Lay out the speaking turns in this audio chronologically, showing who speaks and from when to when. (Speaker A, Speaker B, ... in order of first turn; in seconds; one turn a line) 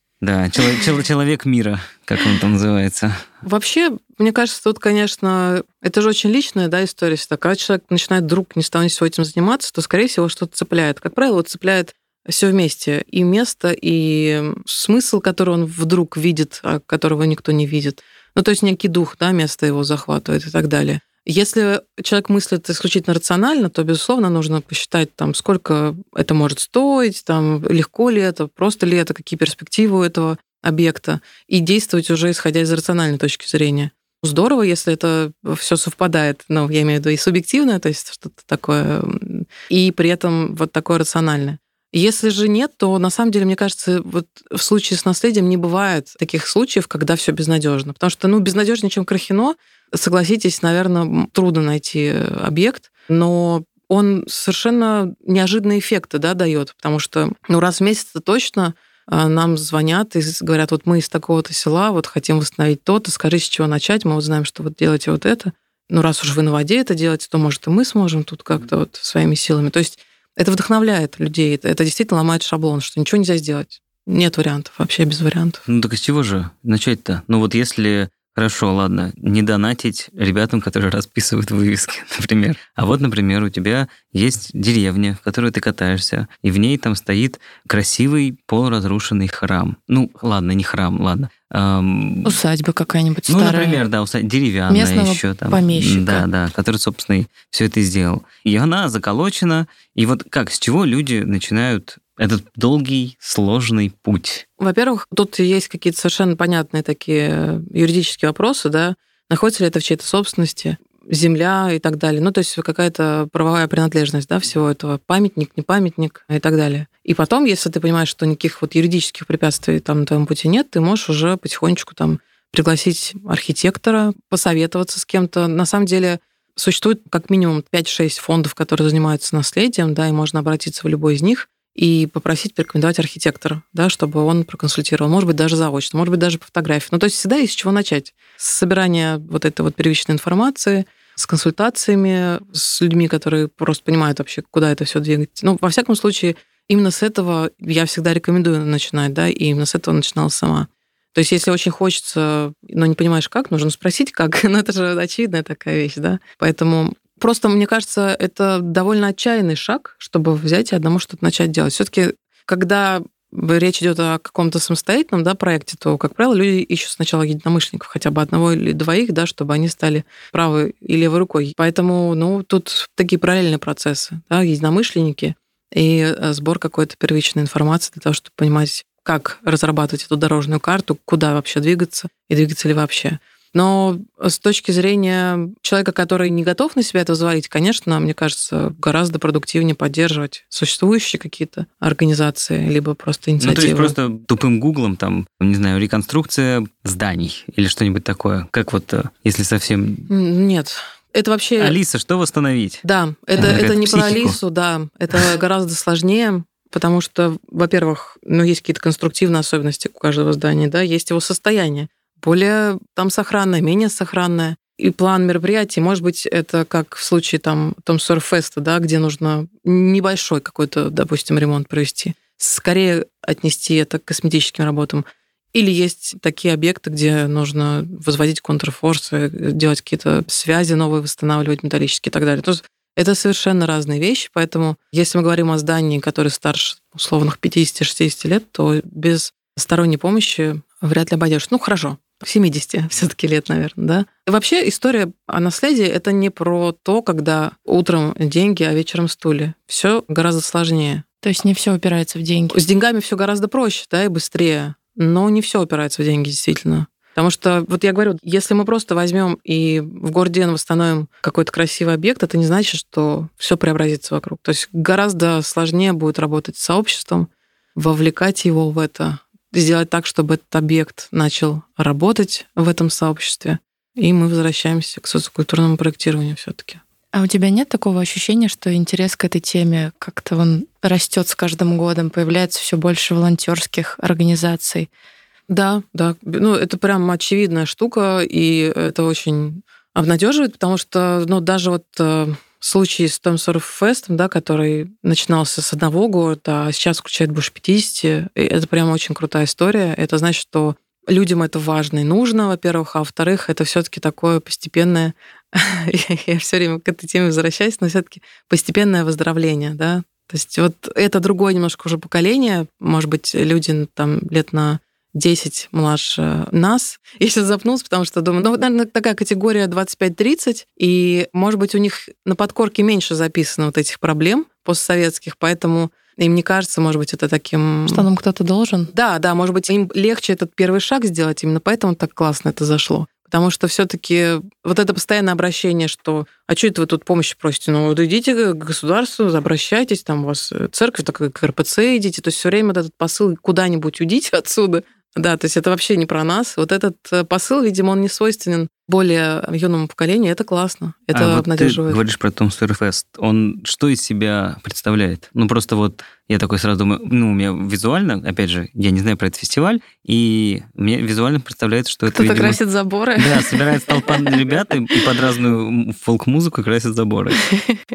Speaker A: 0.2-3.2
Speaker B: 3.4-75.6
Speaker A: 75.7-92.4
Speaker C: 92.2-93.8
Speaker A: 93.3-104.4
Speaker C: 94.7-96.2
Speaker B: 104.6-193.9
Speaker A: 193.4-200.1
Speaker B: 200.1-201.8
Speaker A: 201.6-202.8
Speaker B: 202.8-251.0
Speaker A: 203.4-204.4
Speaker C: 251.2-252.6
Speaker B: 252.5-276.8
Speaker C: 277.1-284.9
Speaker B: 285.5-328.1
Speaker C: 327.9-328.9
Speaker B: 328.9-352.0
Speaker A: 351.1-362.6
Speaker C: 362.1-364.3
Speaker A: 363.2-367.4